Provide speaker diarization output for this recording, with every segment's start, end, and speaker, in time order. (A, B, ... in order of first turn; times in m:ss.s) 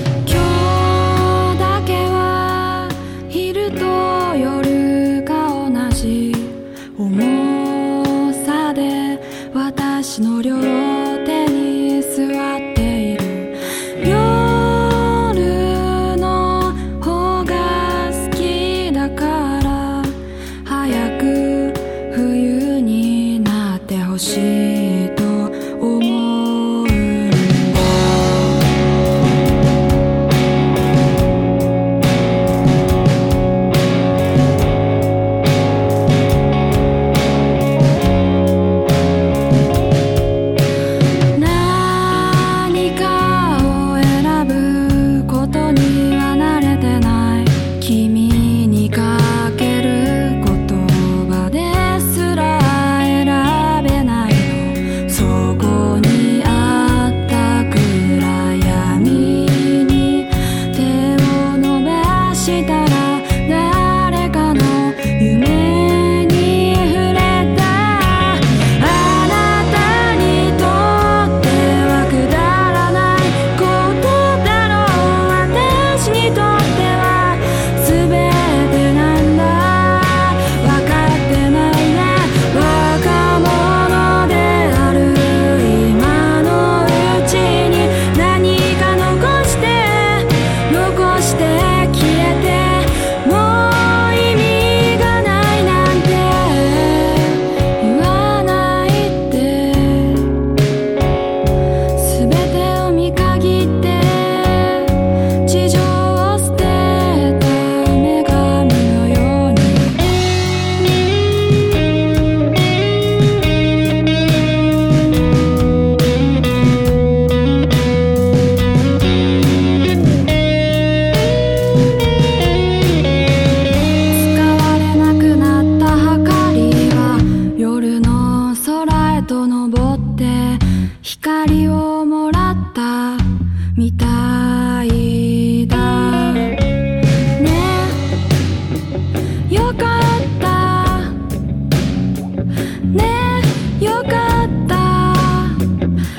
0:00.2-0:28.6 A
0:41.3-1:40.4 A
1:41.9-1:50.0 A
2:04.1-2:16.6 A
2:17.4-2:18.0 A
2:19.5-2:21.2 A
2:22.9-2:25.7 A